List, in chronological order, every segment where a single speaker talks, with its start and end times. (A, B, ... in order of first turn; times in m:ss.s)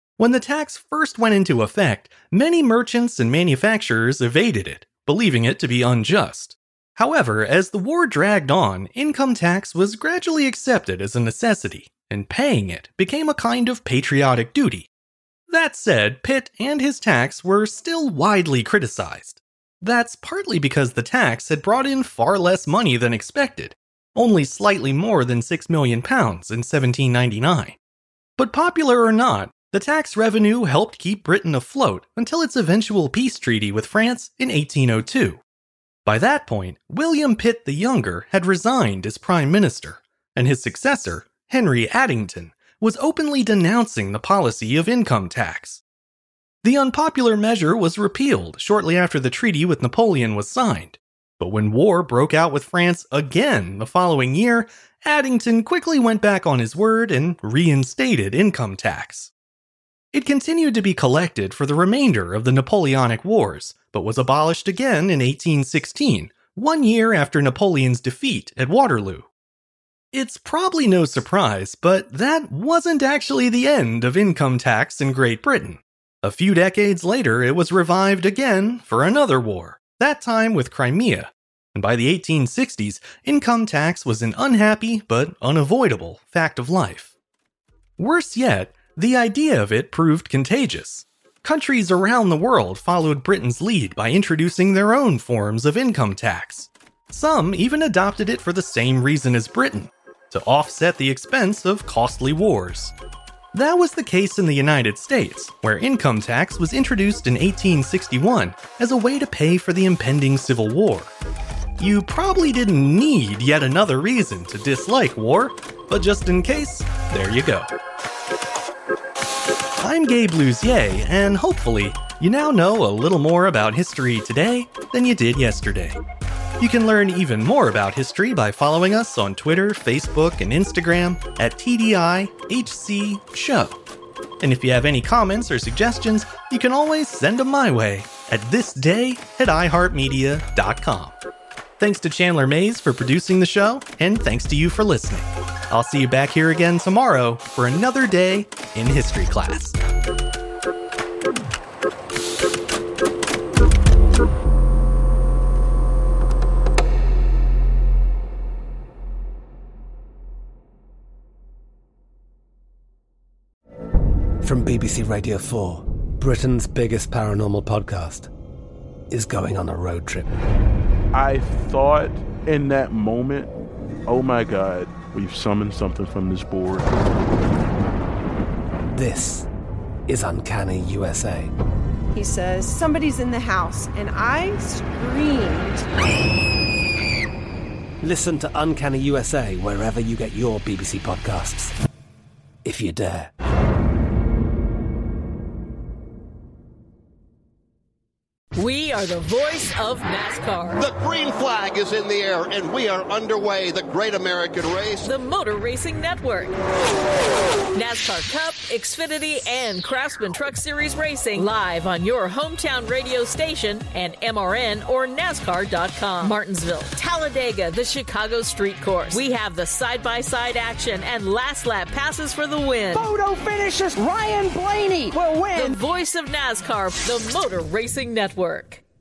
0:00.2-0:14.9 A
0:15.5-0:27.8 A
0:28.4-0:35.4 A
0:36.0-0:45.8 A
0:46.6-0:59.3 A
1:00.1-1:09.3 A
1:10.1-1:27.1 A
1:28.0-1:42.9 A
1:43.5-1:51.1 A
1:51.8-1:57.7 A
1:59.8-2:06.0 A
2:06.6-2:13.8 A
2:14.4-2:21.2 A
2:21.8-2:29.8 A
2:44.4-2:48.3 B
2:49.1-2:50.3 B
2:51.1-2:53.5 C
2:54.1-2:56.9 C
2:58.9-2:59.5 B
3:00.1-3:01.5 B
3:02.1-3:05.8 D
3:08.0-3:11.7 B
3:12.6-3:13.3 B
3:18.6-3:20.7 E
3:20.9-3:25.0 F
3:25.0-3:26.5 E
3:27.7-3:43.1 E
3:42.9-3:45.8 G
3:45.6-3:48.8 E